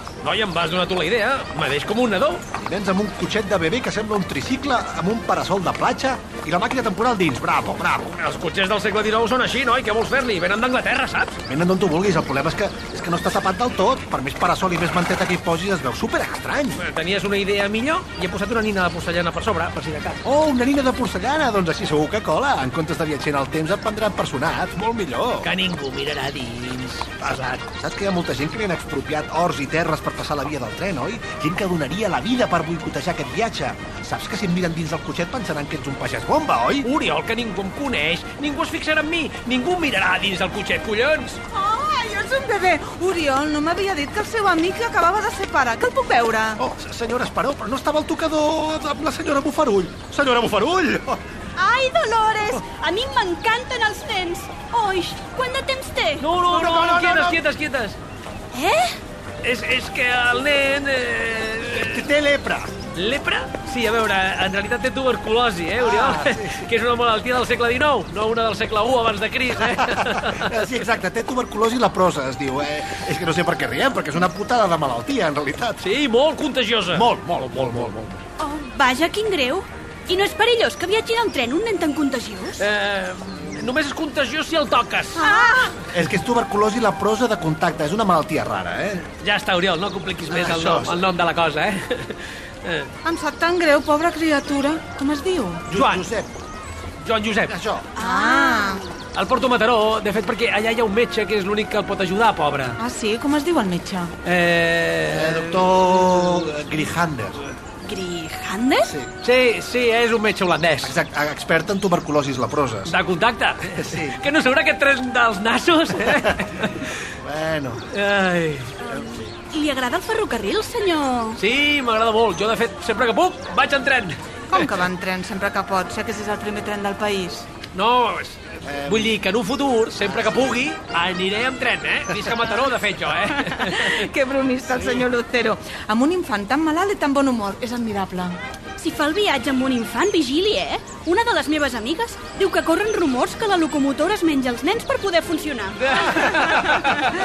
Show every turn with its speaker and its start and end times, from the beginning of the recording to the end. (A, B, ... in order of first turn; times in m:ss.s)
0:00.2-0:02.4 A
0:02.5-0:08.2 B
0:08.1-0:11.4 A
0:11.4-0:16.8 B
0:16.8-0:20.2 A
0:20.2-0:25.5 B
0:25.4-0:27.6 A
0:27.2-0:36.9 B
0:36.8-0:41.4 A
0:41.5-0:46.6 C
0:46.6-0:51.2 B
0:51.6-0:56.2 D
0:56.2-0:58.0 A
0:56.5-0:57.4 B
0:58.5-0:59.0 D
0:59.4-1:02.0 A
1:01.7-1:02.7 B
1:02.9-1:10.5 A
1:05.8-1:06.6 B
1:09.7-1:15.8 B
1:15.8-1:17.1 A
1:16.9-1:18.2 B
1:17.6-1:17.9 A
1:18.4-1:22.6 D
1:22.6-1:25.3 A
1:25.2-1:25.7 C
1:25.9-1:29.1 B
1:29.2-1:32.9 A
1:30.2-1:31.0 B
1:33.0-1:35.6 C
1:35.7-1:36.3 B
1:35.7-1:36.0 A
1:37.0-1:37.5 A
1:37.5-1:38.0 B
1:38.0-1:38.9 D
1:38.0-1:38.8 C
1:39.1-1:42.8 A
1:42.8-1:44.1 C
1:44.2-1:45.6 A
1:45.1-1:47.4 B
1:47.8-1:48.9 D
1:48.8-1:49.1 B
1:49.2-1:51.0 A
1:50.8-1:53.0 B
1:52.9-1:56.9 A
1:53.7-1:54.2 B
1:57.2-1:57.9 B
1:57.9-1:58.7 A
1:58.9-1:59.3 B
1:58.9-2:01.4 D
2:01.4-2:04.2 A
2:04.5-2:07.5 C
2:07.7-2:14.1 A
2:08.6-2:09.2 B
2:10.0-2:10.6 B
2:13.4-2:18.4 C
2:18.8-2:26.8 D
2:26.0-2:27.1 A
2:26.3-2:26.8 B